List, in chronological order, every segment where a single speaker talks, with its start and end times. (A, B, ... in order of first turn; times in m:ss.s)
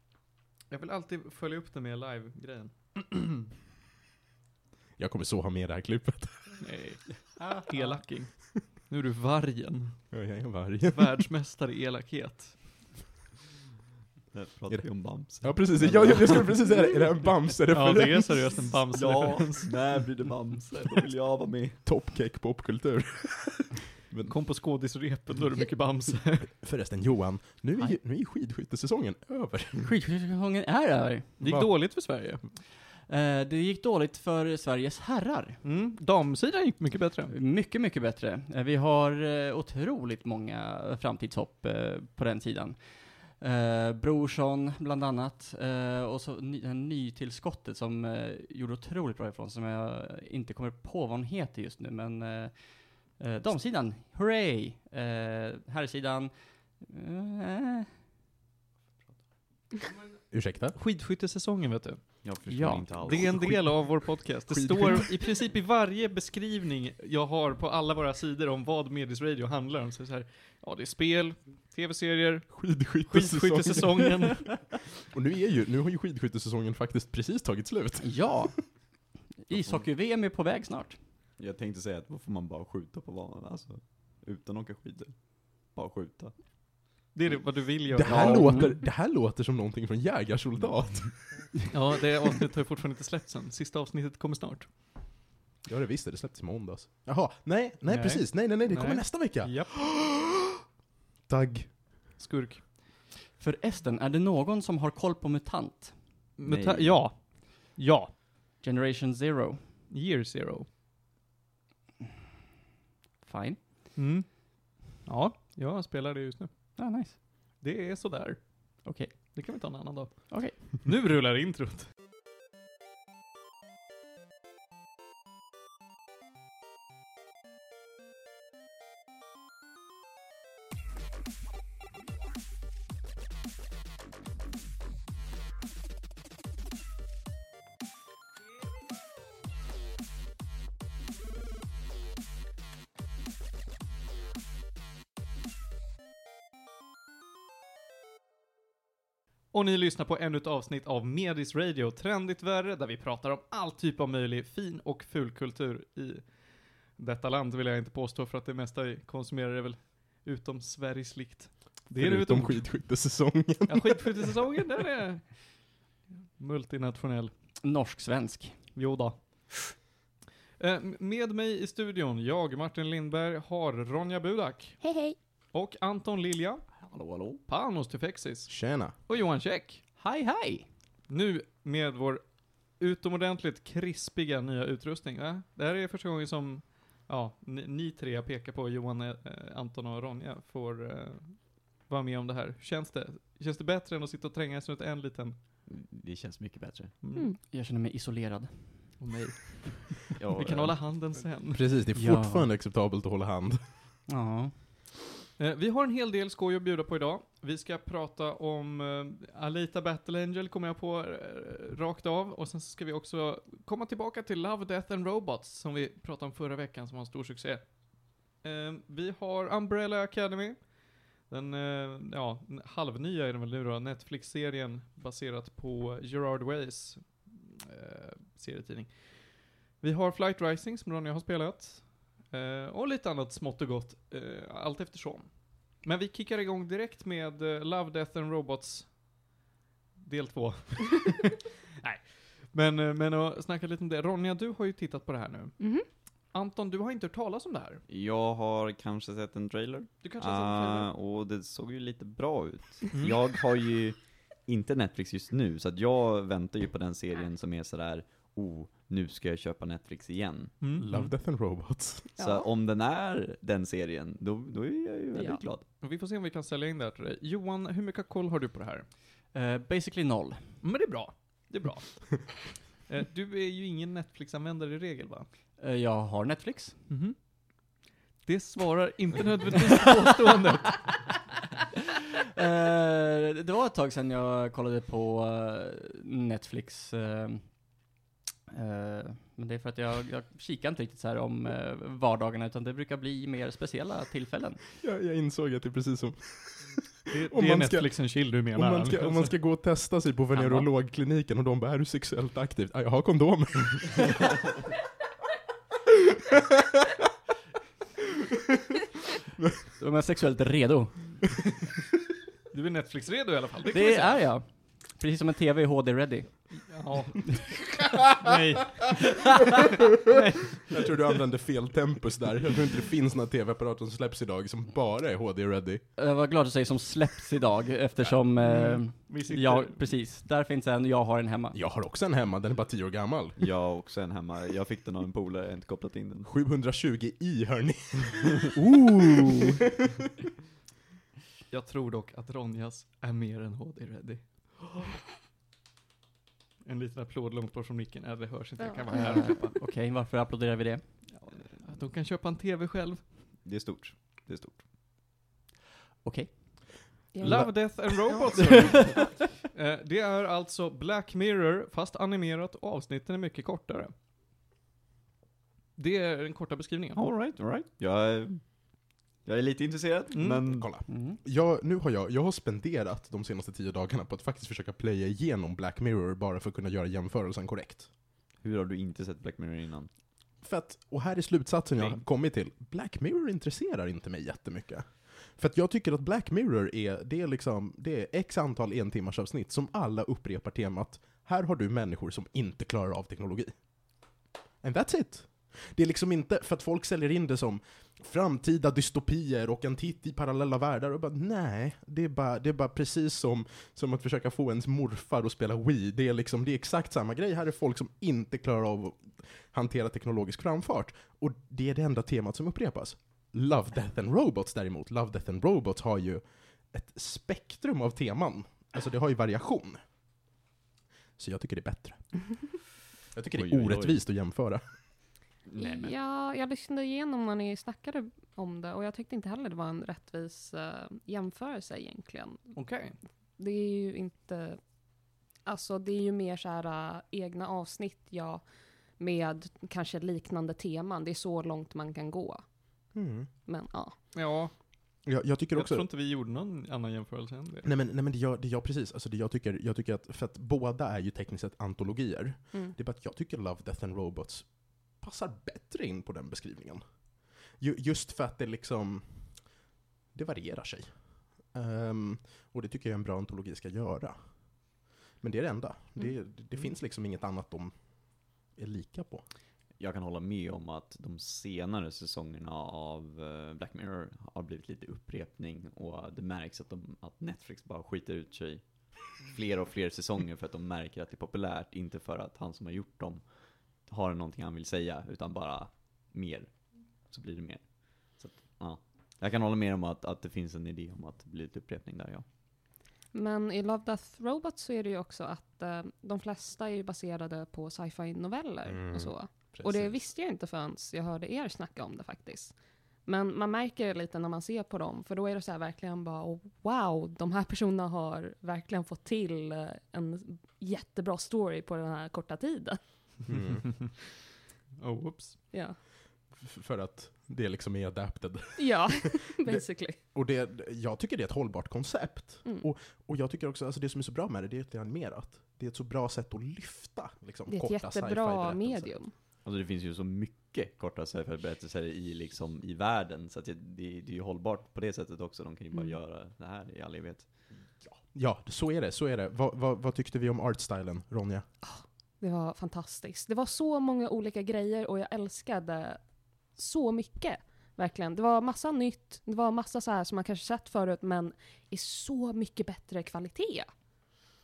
0:00.7-0:02.7 A
0:05.0-0:06.6 B
0:06.6-0:10.1 A
0:07.4-0:08.0 C
0:10.1-0:11.2 B
0:10.9-0:12.8 A
0:14.3-0:16.8 D
0:14.7-0:18.6 B
0:17.7-0:19.7 A
0:18.9-0:21.8 D
0:21.8-0:23.8 B
0:24.3-0:26.5 A
0:26.6-0:29.9 B
0:29.8-0:31.4 C
0:31.4-0:32.4 A
0:31.4-0:31.7 B
0:33.1-0:35.6 C
0:35.6-0:37.3 A
0:37.3-0:58.0 C
1:00.3-1:00.8 B
1:00.8-1:02.3 A
1:02.2-1:03.5 D
1:02.5-1:03.2 C
1:03.0-1:14.5 A
1:03.2-1:05.1 B
1:12.5-1:14.6 B
1:15.1-1:18.5 B
1:18.0-1:18.8 C
1:19.4-1:21.0 C
1:21.4-1:26.5 D
1:27.1-1:28.8 A
1:27.9-1:31.6 B
1:28.0-1:28.5 D
1:28.2-1:28.8 C
1:31.7-1:34.7 A
1:35.7-1:40.3 B
1:37.9-1:39.8 A
1:41.3-1:41.8 B
1:42.2-1:42.7 A
1:43.4-1:46.0 C
1:46.4-1:48.2 A
1:46.4-1:47.1 D
1:48.6-1:49.7 C
1:49.9-1:50.7 A
1:53.2-1:53.6 C
1:54.0-1:56.8 A
1:56.8-1:57.2 C
1:57.6-2:01.9 A
1:58.8-1:59.6 C
2:00.3-2:00.7 C
2:29.5-2:42.7 A
2:41.9-2:44.1 B
2:43.7-2:45.7 A
2:46.4-2:47.3 A
2:47.6-2:48.8 C
2:48.7-2:49.5 A
2:50.6-2:54.8 A
2:54.8-2:55.2 E
2:55.5-2:56.7 A
2:56.8-2:57.4 D
2:57.5-2:59.8 A
2:58.5-2:58.9 B
3:00.0-3:00.7 C
3:01.1-3:02.2 A
3:02.8-3:15.4 A
3:15.7-3:17.0 D
3:17.0-3:17.3 A
3:17.4-3:19.0 C
3:19.0-3:21.7 A
3:20.2-3:20.8 D
3:21.6-3:23.6 B
3:21.9-3:22.5 C
3:24.1-3:24.5 C
3:25.4-3:37.8 A
3:38.4-3:59.0 A
4:00.0-4:05.7 A
4:05.6-4:05.9 E
4:06.3-4:07.8 A
4:07.9-4:20.6 D
4:10.0-4:10.9 A
4:12.9-4:13.2 A
4:20.6-4:20.9 A
4:20.8-4:22.1 B
4:22.2-4:22.5 E
4:22.2-4:25.6 D
4:25.1-4:25.4 E
4:25.8-4:28.9 A
4:29.3-4:30.6 C
4:30.6-4:35.3 A
4:35.6-4:36.8 C
4:36.9-4:37.2 A
4:38.2-4:41.0 A
4:42.4-4:47.7 C
4:48.5-4:54.6 C
4:54.8-5:04.3 B
4:57.1-4:59.3 A
5:00.3-5:00.7 C
5:05.9-5:06.9 B
5:09.8-5:11.4 C
5:12.5-5:14.3 A
5:13.7-5:16.8 C
5:16.6-5:17.5 A
5:18.2-5:19.5 A
5:20.1-5:20.8 A
5:20.7-5:25.8 B
5:26.0-5:31.6 C
5:28.4-5:29.8 A
5:31.5-5:33.4 B
5:33.4-5:36.3 D
5:36.3-5:39.6 B
5:38.8-5:39.5 C
5:41.5-5:45.0 A
5:46.6-5:49.6 A
5:48.6-5:49.0 E
5:49.0-5:50.9 C
5:51.1-5:53.1 A
5:53.4-5:54.6 D
5:56.0-5:57.0 C
5:57.1-5:57.5 E
5:57.2-6:03.9 A
5:57.2-5:57.5 B
5:58.5-5:58.8 C
6:05.8-6:07.0 A
6:07.0-6:10.7 D
6:10.1-6:10.4 A
6:10.5-6:17.9 B
6:10.9-6:11.2 C
6:18.4-6:19.9 D
6:20.4-6:33.5 B
6:34.6-6:59.8 B
7:01.2-7:02.4 B
7:03.1-7:04.6 B
7:03.3-7:04.0 D
7:05.5-7:05.9 D
7:05.6-7:12.6 E
7:12.6-7:13.0 A
7:13.4-7:14.6 E
7:15.4-7:18.4 E
7:19.0-7:22.4 E
7:22.9-7:23.3 B
7:23.5-7:23.9 E
7:24.1-7:24.5 A
7:25.0-7:25.9 B
7:25.5-7:27.7 A
7:27.6-7:36.8 B
7:37.6-7:39.4 B
7:40.1-7:44.3 B
7:45.2-7:47.8 B
7:48.5-7:49.2 B
7:49.8-8:12.2 D
8:13.1-8:22.5 E
8:18.7-8:20.1 B
8:23.0-8:32.8 E
8:33.3-8:33.7 B
8:34.8-8:35.4 A
8:35.5-8:35.8 E
8:36.4-8:49.0 B
8:38.6-8:40.0 E
8:47.5-8:49.1 E
8:49.4-8:57.3 D
8:57.9-9:01.5 B
9:01.6-9:06.0 E
9:06.6-9:13.7 E